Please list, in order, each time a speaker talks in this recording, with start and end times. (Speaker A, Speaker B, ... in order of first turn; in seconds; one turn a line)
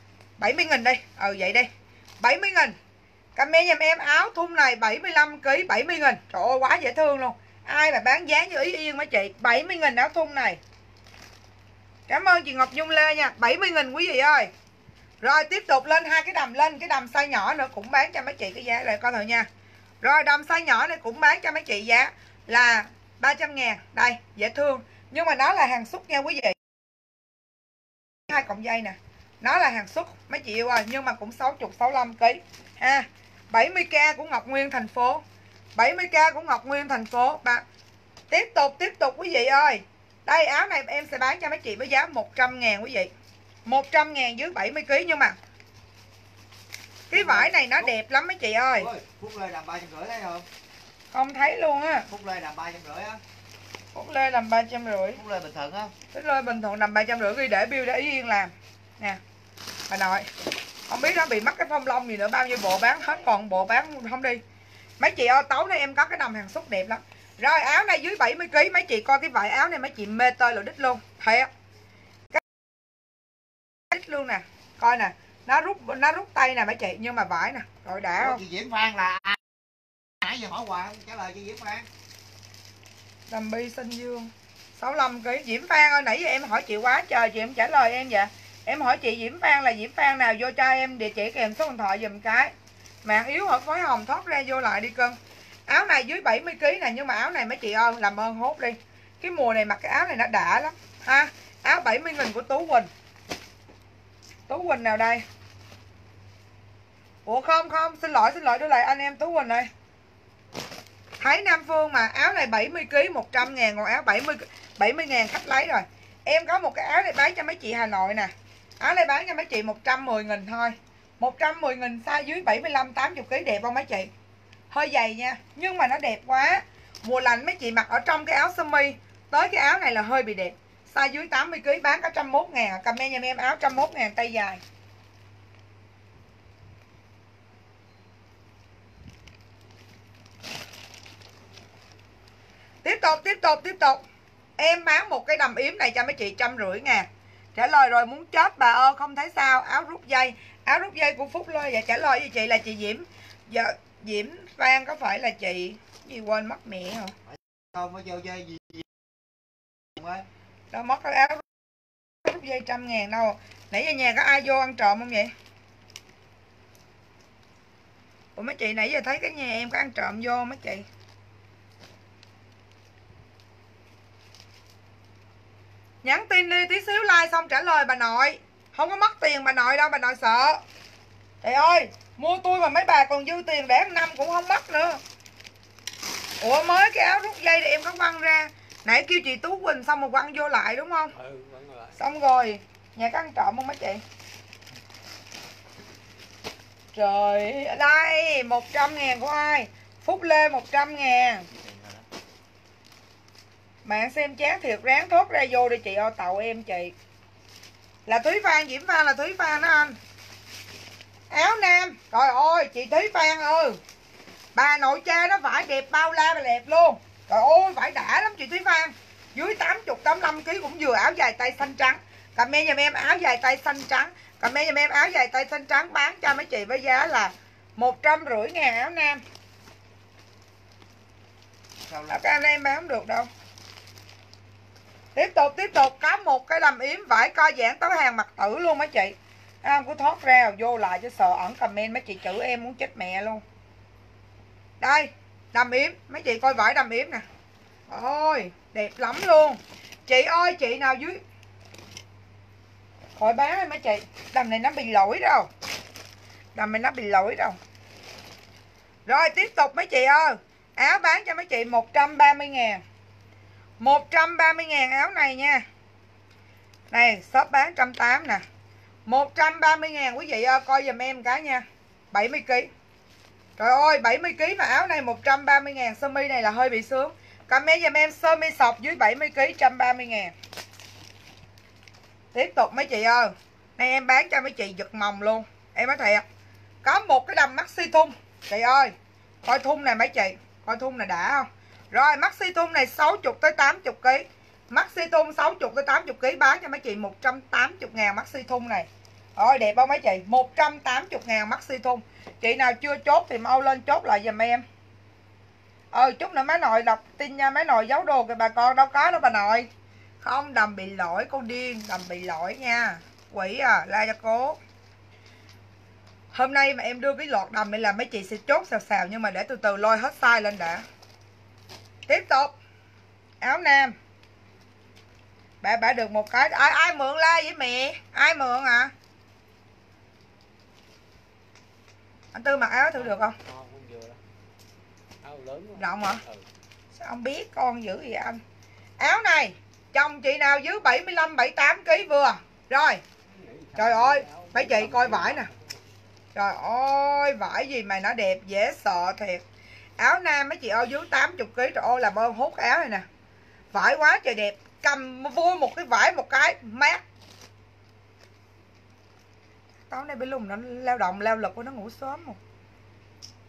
Speaker A: 0.4-1.7
Speaker A: 2.2-2.8
Speaker A: 3.4-10.6
Speaker A: 12.1-14.5
Speaker A: 15.2-19.5
Speaker A: 20.0-26.6
Speaker A: 28.3-35.2
Speaker A: 35.8-37.6
Speaker A: 38.3-43.1
Speaker A: 43.7-45.4
Speaker B: 47.1-47.9
Speaker A: 47.1-48.9
Speaker B: 48.8-50.5
Speaker A: 51.1-52.1
Speaker B: 52.1-53.2
Speaker A: 53.9-55.2
Speaker B: 55.1-55.9
Speaker A: 56.1-59.2
Speaker A: 59.9-60.3
Speaker A: 60.9-64.4
Speaker A: 65.0-71.5
Speaker A: 73.9-78.4
Speaker B: 78.2-79.4
Speaker B: 80.2-81.9
Speaker A: 83.3-92.5
Speaker A: 93.0-102.9
Speaker A: 104.5-105.2
Speaker A: 107.2-109.7
Speaker A: 111.2-124.1
Speaker A: 124.7-134.6
Speaker A: 142.8-144.0
Speaker A: 144.6-157.1
Speaker B: 157.3-158.9
Speaker B: 159.9-160.3
Speaker A: 160.7-161.5
Speaker A: 162.2-165.3
Speaker A: 168.4-170.9
Speaker A: 176.0-180.6
Speaker A: 181.4-185.0
Speaker A: 186.4-191.2
Speaker C: 191.2-192.0
Speaker A: 192.0-194.0
Speaker A: 196.9-201.5
Speaker B: 201.5-202.1
Speaker A: 203.8-206.9
Speaker A: 208.1-210.0
Speaker A: 211.3-213.8
Speaker A: 214.6-229.2
Speaker B: 231.9-232.2
Speaker A: 232.1-233.3
Speaker A: 235.2-243.4
Speaker A: 244.8-247.2
Speaker A: 247.9-251.2
Speaker A: 253.2-255.5
Speaker A: 256.6-257.6
Speaker A: 259.1-262.8
Speaker A: 263.8-265.6
Speaker A: 266.9-268.4
Speaker A: 269.1-272.7
Speaker A: 273.6-280.3
Speaker A: 282.3-286.2
Speaker A: 286.8-304.6
Speaker A: 305.9-309.7
Speaker A: 310.2-314.6
Speaker A: 316.3-320.9
Speaker A: 322.1-322.5
Speaker A: 323.4-323.9
Speaker A: 325.6-328.9
Speaker A: 332.3-333.4
Speaker C: 332.9-334.2
Speaker C: 335.2-336.5
Speaker A: 335.8-336.2
Speaker A: 337.0-338.4
Speaker A: 339.0-343.0
Speaker C: 343.3-345.9
Speaker A: 343.8-345.5
Speaker A: 346.4-349.4
Speaker A: 350.0-353.1
Speaker A: 353.7-357.0
Speaker A: 359.9-362.4